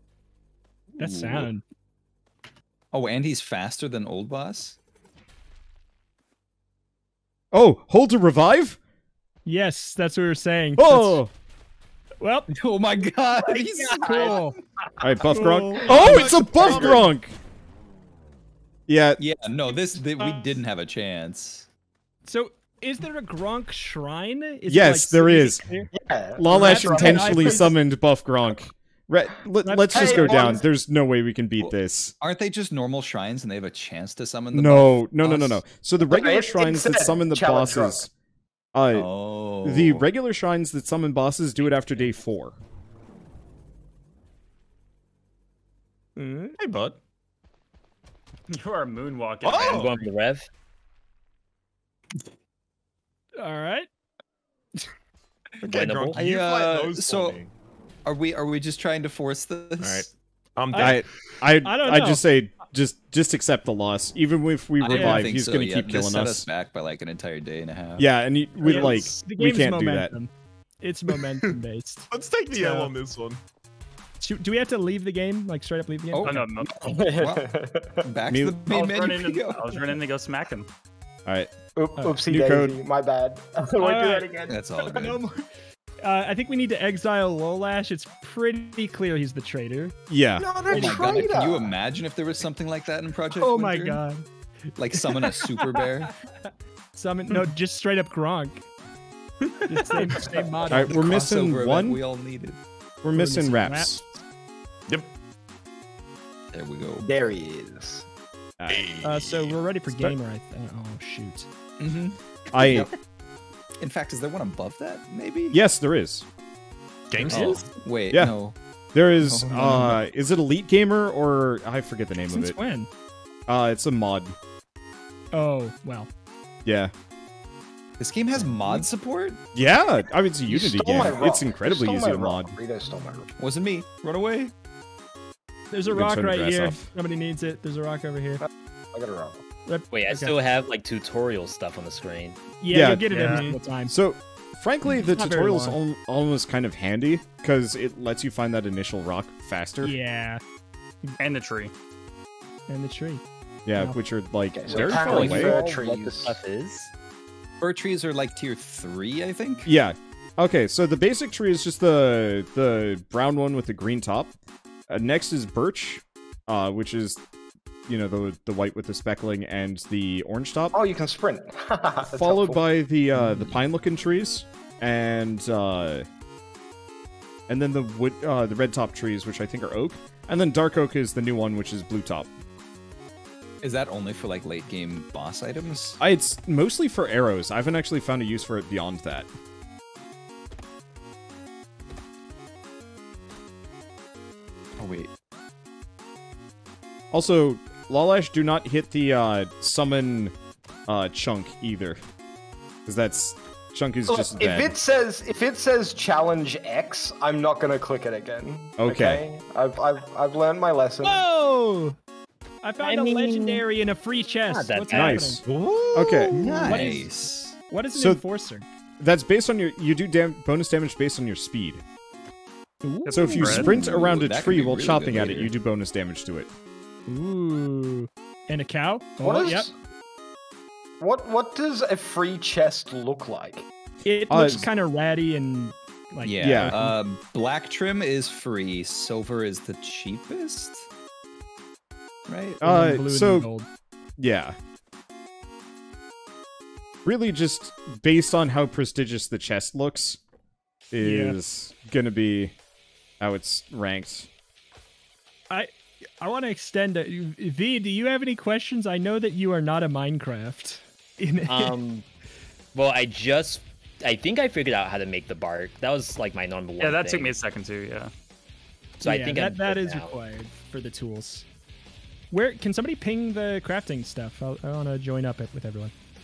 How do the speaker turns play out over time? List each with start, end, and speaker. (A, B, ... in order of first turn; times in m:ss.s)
0:01.0-0:01.6 A
0:01.0-0:01.5 B
0:02.9-0:04.8 B
0:07.5-0:08.8 C
0:09.5-0:11.2 A
0:10.8-0:11.3 C
0:12.2-0:12.5 A
0:12.5-0:14.4 B
0:13.4-0:14.5 D
0:14.0-0:14.6 A
0:15.0-0:17.3 C
0:15.3-0:16.2 A
0:15.8-0:17.1 E
0:16.6-0:16.9 B
0:18.9-0:19.2 C
0:19.2-0:21.7 B
0:22.3-0:25.9 A
0:24.7-0:25.6 C
0:25.9-0:27.7 F
0:26.4-0:32.1 C
0:26.5-0:27.8 A
0:29.6-0:30.6 A
0:29.9-0:30.6 F
0:31.6-0:35.6 B
0:34.5-0:38.1 C
0:36.0-0:38.1 F
0:38.7-0:39.1 C
0:38.9-0:40.1 B
0:39.6-0:42.6 C
0:46.2-0:46.6 A
0:46.6-0:47.0 E
0:48.5-0:50.0 G
0:49.4-0:50.0 E
0:49.6-0:50.5 D
0:53.4-0:53.9 A
0:55.6-0:56.2 D
0:55.7-0:57.5 E
0:56.2-0:57.4 B
0:58.0-1:00.1 B
0:59.8-1:01.2 E
1:00.7-1:01.0 A
1:00.8-1:06.5 C
1:01.6-1:02.3 A
1:04.8-1:08.1 B
1:04.9-1:05.3 A
1:08.0-1:10.1 C
1:08.6-1:09.2 E
1:08.6-1:12.9 A
1:12.1-1:13.4 E
1:14.2-1:16.5 A
1:16.1-1:17.5 B
1:16.2-1:17.0 G
1:16.7-1:18.0 F
1:18.0-1:19.8 B
1:18.3-1:18.6 C
1:18.7-1:20.7 G
1:21.3-1:21.5 C
1:21.8-1:24.6 F
1:22.3-1:22.8 C
1:23.8-1:25.4 A
1:24.5-1:25.2 B
1:26.0-1:30.0 A
1:30.1-1:30.6 C
1:30.4-1:31.8 F
1:30.6-1:34.0 B
1:33.3-1:34.3 A
1:34.8-1:36.1 B
1:34.9-1:35.9 A
1:36.4-1:38.6 A
1:39.7-1:41.2 A
1:39.7-1:40.0 G
1:40.7-1:42.6 B
1:40.7-1:42.0 C
1:43.0-1:44.0 C
1:43.1-1:44.0 A
1:46.5-1:47.1 B
1:47.0-1:48.1 F
1:48.6-1:49.0 C
1:48.7-1:49.6 E
1:49.0-1:51.5 A
1:49.9-1:50.1 C
1:51.8-1:52.9 B
1:52.5-1:52.9 C
1:53.8-1:55.6 B
1:55.5-1:56.3 C
1:57.1-1:57.7 E
1:57.2-1:57.6 A
1:57.3-1:58.6 B
1:58.1-1:58.4 C
1:58.9-2:02.6 C
1:59.2-2:00.0 B
2:02.3-2:02.9 A
2:03.5-2:04.4 C
2:05.3-2:06.1 A
2:06.6-2:06.9 C
2:08.0-2:09.4 B
2:09.5-2:12.5 C
2:10.5-2:13.3 F
2:13.4-2:14.5 B
2:15.7-2:18.4 A
2:15.9-2:16.9 C
2:18.4-2:19.4 F
2:19.7-2:20.4 A
2:19.9-2:22.4 D
2:22.6-2:23.9 A
2:22.7-2:23.2 C
2:23.1-2:23.4 G
2:23.2-2:23.6 E
2:23.9-2:30.0 C
2:24.9-2:25.8 A
2:29.8-2:30.4 A
2:31.2-2:31.7 G
2:32.7-2:33.2 A
2:33.6-2:35.6 C
2:34.5-2:36.4 F
2:34.7-2:36.9 D
2:37.6-2:39.7 B
2:39.7-2:44.3 C
2:44.9-2:47.2 C
2:47.9-2:50.8 C
2:50.7-2:52.6 F
2:52.1-2:56.0 C
2:53.2-2:53.6 B
2:57.5-3:02.3 C
3:03.6-3:06.0 B
3:06.0-3:09.3 C
3:14.8-3:15.1 B
3:17.1-3:20.3 C
3:20.9-3:22.0 C
3:22.9-3:24.8 C
3:24.1-3:31.2 F
3:28.8-3:29.2 C
3:31.0-3:32.0 A
3:32.6-3:35.4 A
3:32.8-3:33.6 D
3:34.5-3:35.3 D
3:34.9-3:36.5 C
3:35.4-3:37.0 E
3:35.9-3:37.6 B
3:36.6-3:37.1 A
3:37.7-3:38.7 A
3:38.0-3:38.2 C
3:39.0-3:41.8 C
3:42.8-3:43.8 A
3:43.0-3:43.7 G
3:43.1-3:46.5 C
3:43.4-3:45.5 B
3:47.1-3:49.7 A
3:49.2-3:49.7 F
3:51.0-3:53.6 F
3:54.0-3:57.0 A
3:54.3-3:54.7 C
3:56.2-4:00.9 B
3:56.4-3:56.8 C
4:02.3-4:02.6 B
4:02.6-4:03.5 C
4:02.6-4:03.7 A
4:04.2-4:04.6 C
4:07.0-4:10.2 C
4:10.9-4:12.6 C
4:11.0-4:11.4 A
4:13.2-4:14.3 C
4:15.5-4:21.8 A
4:21.4-4:22.0 D
4:22.8-4:27.4 D
4:26.8-4:28.1 G
4:29.0-4:31.5 A
4:29.0-4:30.1 D
4:32.3-4:35.9 A